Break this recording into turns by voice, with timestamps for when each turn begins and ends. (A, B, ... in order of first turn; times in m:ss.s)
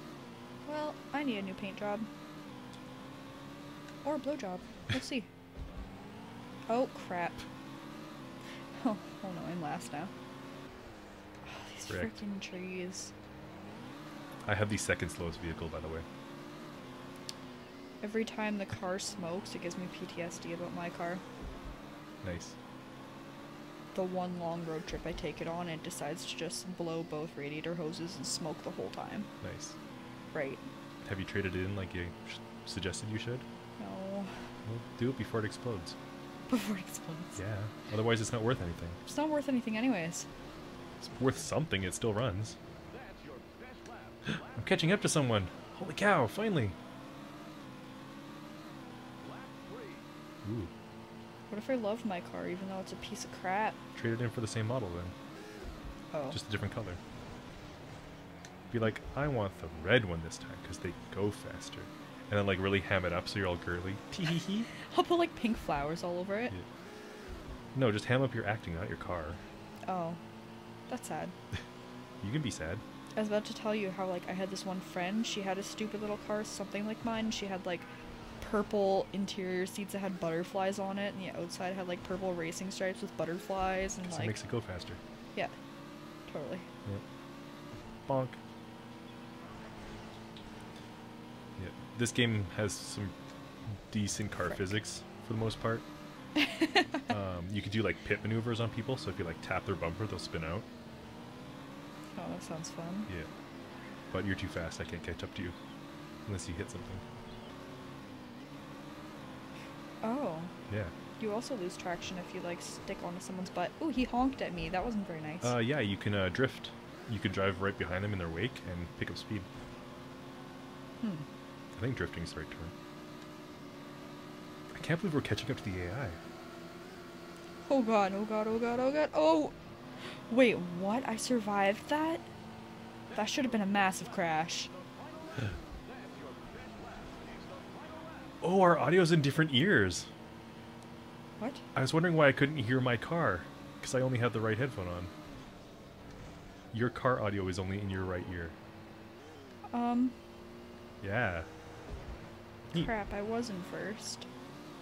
0:00.6-0:02.1 A
0:04.0-0:05.3 A
0:06.7-0:07.4 A
0:08.8-0:10.1 A
0:11.4-0:13.1 A
0:11.9-0:12.2 B
0:14.4-0:16.0 B
0:18.0-0:21.2 A
0:22.2-0:22.5 B
0:23.9-0:29.3 A
0:29.4-0:29.7 B
0:30.3-0:30.6 A
0:31.0-0:33.4 B
0:33.8-0:34.3 A
0:34.6-0:36.0 B
0:36.5-0:37.4 A
0:37.4-0:39.0 B
0:39.0-0:40.3 A
0:41.0-0:42.6 B
0:43.0-0:43.7 C
0:44.3-0:46.8 B
0:49.2-0:50.0 C
0:50.4-0:50.7 B
0:51.5-0:53.8 A
0:53.9-0:55.1 B
0:56.1-0:56.4 A
0:56.3-0:57.0 B
0:58.7-1:04.7 B
1:04.8-1:06.6 A
1:07.7-1:09.4 B
1:09.8-1:10.2 A
1:10.9-1:11.3 A
1:12.2-1:12.8 B
1:13.2-1:17.9 A
1:18.4-1:24.4 A
1:24.0-1:25.0 B
1:26.3-1:26.6 A
1:28.1-1:28.4 B
1:31.6-1:33.1 B
1:33.8-1:35.8 B
1:36.4-1:37.0 A
1:37.1-1:40.6 B
1:42.1-1:43.1 A
1:44.1-1:45.6 B
1:46.2-1:47.0 B
1:50.0-1:50.5 A
1:50.7-1:50.9 B
1:51.2-1:55.6 A
1:55.4-1:59.5 B
2:01.0-2:01.3 A
2:01.7-2:02.7 B
2:04.7-2:06.2 B
2:07.6-2:09.5 A
2:10.3-2:12.2 A
2:13.1-2:14.7 A
2:15.9-2:18.0 C
2:18.4-2:20.1 B
2:21.4-2:21.6 A
2:21.7-2:25.1 B
2:26.7-2:28.5 B
2:29.7-2:30.1 A
2:31.0-2:31.5 B
2:32.7-2:34.3 A